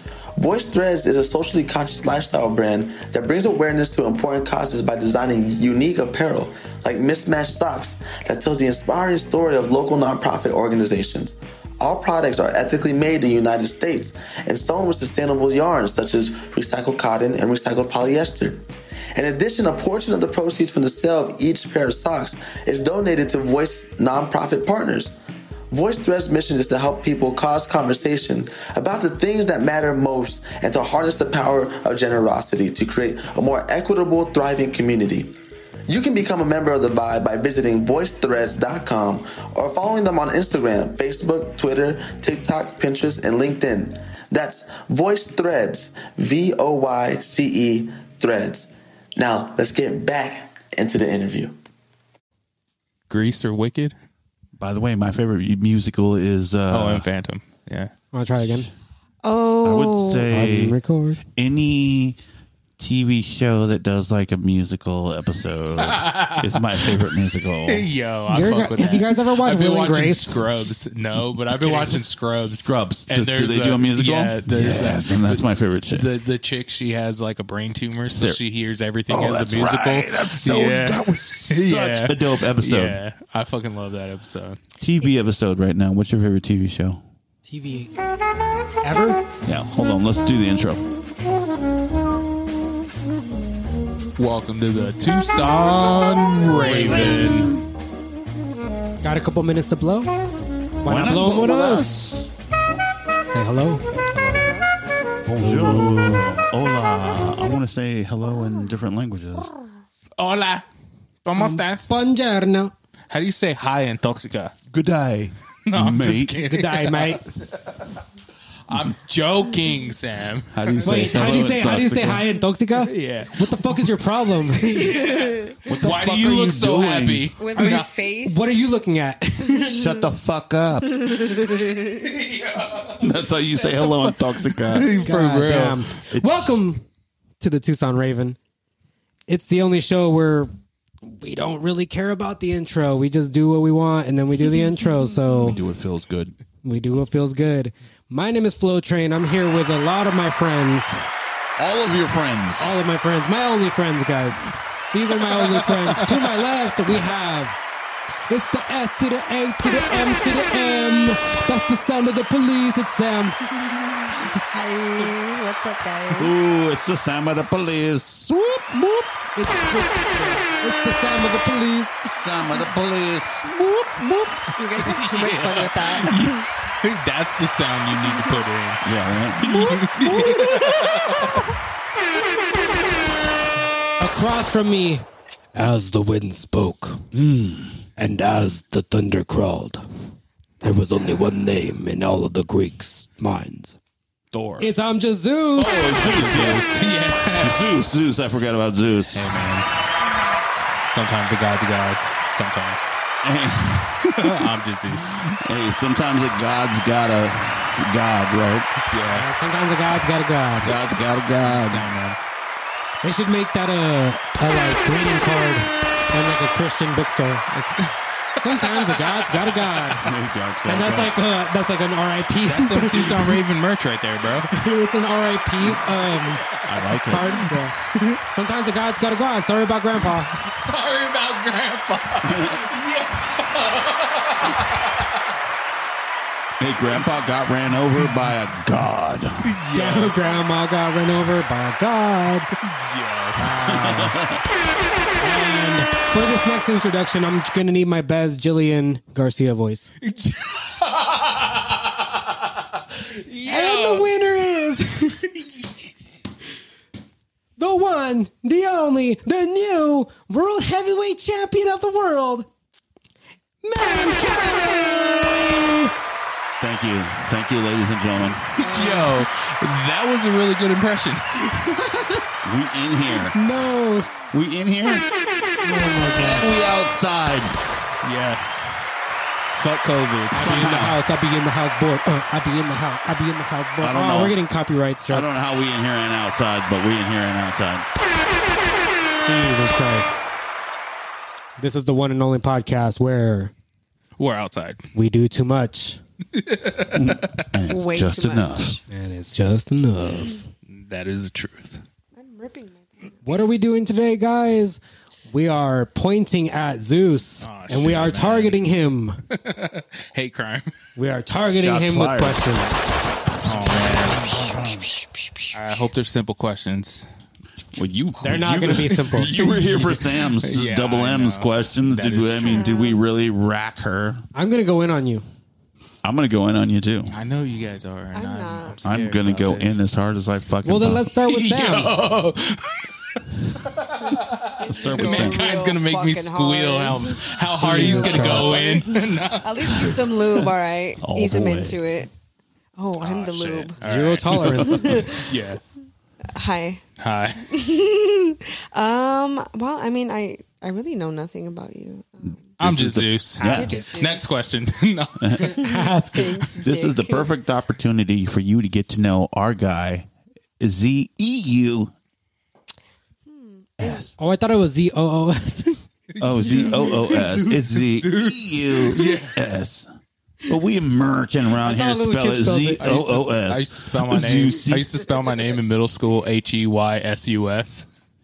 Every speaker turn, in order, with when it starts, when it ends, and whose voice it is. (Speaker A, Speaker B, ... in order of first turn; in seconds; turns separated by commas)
Speaker A: 0.4-18.6, Speaker A: 19.1-25.1, Speaker A: 25.7-35.3, Speaker A: 35.9-51.5, Speaker B: 53.1-53.9, Speaker C: 54.6-57.0, Speaker B: 56.7-57.9, Speaker D: 58.1-58.7, Speaker E: 59.2-60.2, Speaker C: 59.6-60.8, Speaker D: 60.2-61.2, Speaker C: 61.3-62.2, Speaker C: 62.8-67.9, Speaker B: 65.8-66.9, Speaker B: 67.6-84.6, Speaker D: 68.3-70.4, Speaker C: 71.5-76.1, Speaker C: 78.1-78.4, Speaker C: 79.1-83.0, Speaker C: 84.8-87.0, Speaker D: 87.4-87.9, Speaker D: 88.8-89.2, Speaker C: 89.4-90.9, Speaker B: 94.2-97.5, Speaker C: 96.2-97.6, Speaker D: 99.0-100.1, Speaker D: 100.8-102.0, Speaker C: 100.8-102.3, Speaker D: 103.3-103.8, Speaker B: 104.1-104.6, Speaker C: 105.2-109.5, Speaker D: 105.4-106.3, Speaker B: 110.2-110.6, Speaker B: 111.2-111.9, Speaker D: 111.4-112.7, Speaker B: 113.1-114.5, Speaker C: 114.7-116.3, Speaker B: 115.7-117.9, Speaker D: 116.5-117.2, Speaker B: 118.7-121.5, Speaker C: 120.5-122.2, Speaker D: 120.8-125.0, Speaker B: 122.8-123.4, Speaker B: 124.8-127.9, Speaker E: 125.1-125.5, Speaker C: 125.7-127.3, Speaker E: 127.4-128.7, Speaker D: 127.5-129.7, Speaker C: 129.6-131.2, Speaker B: 131.2-135.9, Speaker C: 133.0-135.0, Speaker D: 135.0-136.8, Speaker C: 136.1-136.6, Speaker D: 137.4-138.4, Speaker D: 139.3-140.5, Speaker D: 141.0-145.6, Speaker C: 145.3-146.3, Speaker D: 146.6-151.0, Speaker C: 151.6-152.7, Speaker D: 152.6-157.6, Speaker D: 158.3-163.4, Speaker E: 164.2-166.5, Speaker C: 166.1-169.1, Speaker D: 169.3-172.0, Speaker C: 172.0-174.4, Speaker E: 174.5-176.4, Speaker B: 174.8-178.8, Speaker C: 178.8-179.8, Speaker B: 179.4-181.4, Speaker D: 179.8-181.2, Speaker D: 184.0-187.0, Speaker C: 187.1-187.8, Speaker D: 188.0-189.8, Speaker D: 190.6-193.8, Speaker C: 194.3-194.7, Speaker D: 194.6-195.8, Speaker B: 195.6-197.6, Speaker C: 195.6-196.6, Speaker C: 197.4-199.3, Speaker B: 199.1-199.7, Speaker B: 200.8-202.9, Speaker C: 203.2-208.7, Speaker B: 204.2-205.2, Speaker B: 208.7-209.3, Speaker D: 209.1-210.8, Speaker C: 210.6-211.9, Speaker B: 211.4-212.2, Speaker D: 213.0-220.1, Speaker B: 218.6-220.0, Speaker C: 220.0-221.3, Speaker D: 220.6-223.4, Speaker B: 222.4-224.5, Speaker D: 224.5-226.4, Speaker B: 226.0-226.7, Speaker C: 226.7-227.4, Speaker D: 226.9-230.4, Speaker B: 230.1-235.2, Speaker C: 232.2-232.6, Speaker C: 236.6-239.5, Speaker B: 239.4-240.4, Speaker D: 239.7-242.5, Speaker B: 242.7-244.1, Speaker C: 243.6-244.4, Speaker D: 243.7-244.1, Speaker D: 245.2-249.9, Speaker B: 250.0-254.2, Speaker D: 253.4-255.3, Speaker D: 257.6-262.5, Speaker D: 263.6-265.9, Speaker C: 266.6-268.4, Speaker B: 268.5-271.5, Speaker D: 268.6-269.1, Speaker C: 272.4-273.4, Speaker D: 273.3-274.1, Speaker C: 274.3-275.1, Speaker D: 275.6-276.5, Speaker C: 276.1-277.6, Speaker B: 278.0-278.7, Speaker B: 279.5-281.0, Speaker C: 280.3-281.0, Speaker D: 280.3-285.3, Speaker C: 283.8-284.4, Speaker C: 285.1-287.9, Speaker D: 289.2-290.1, Speaker D: 291.6-293.5, Speaker B: 294.2-294.9, Speaker D: 294.9-296.0, Speaker B: 296.3-297.4, Speaker C: 296.9-298.8, Speaker E: 297.7-298.8, Speaker D: 298.9-300.4, Speaker B: 300.7-301.8, Speaker E: 302.1-303.6, Speaker D: 303.2-309.2, Speaker B: 307.4-308.7, Speaker B: 309.3-310.7, Speaker D: 310.9-312.8, Speaker C: 311.4-312.4, Speaker B: 313.4-314.4, Speaker C: 314.2-314.9, Speaker B: 315.5-317.1, Speaker C: 317.8-324.2, Speaker D: 318.2-319.3, Speaker B: 319.4-322.6, Speaker E: 322.4-323.0, Speaker D: 324.3-325.2, Speaker C: 326.0-327.1, Speaker B: 327.1-329.9, Speaker E: 328.1-328.8, Speaker C: 328.8-331.1, Speaker D: 330.6-332.0, Speaker B: 331.2-340.5, Speaker C: 334.6-335.5, Speaker E: 334.9-342.1, Speaker D: 337.6-338.6, Speaker C: 337.6-338.4, Speaker C: 341.0-341.8, Speaker E: 342.8-343.8, Speaker B: 343.0-345.6, Speaker D: 343.8-345.1, Speaker E: 344.6-345.2, Speaker E: 346.3-346.8, Speaker B: 347.0-347.5, Speaker E: 347.5-352.5, Speaker C: 352.2-353.7, Speaker B: 352.6-355.6, Speaker E: 353.4-354.4, Speaker C: 355.2-355.5, Speaker D: 355.5-356.5, Speaker E: 355.6-357.3, Speaker C: 356.6-360.1, Speaker C: 360.6-361.9, Speaker E: 363.3-364.1, Speaker C: 363.8-364.1, Speaker D: 364.2-365.8, Speaker B: 366.2-369.4, Speaker C: 366.2-369.9, Speaker C: 370.4-374.9, Speaker D: 371.6-372.8, Speaker B: 372.8-377.9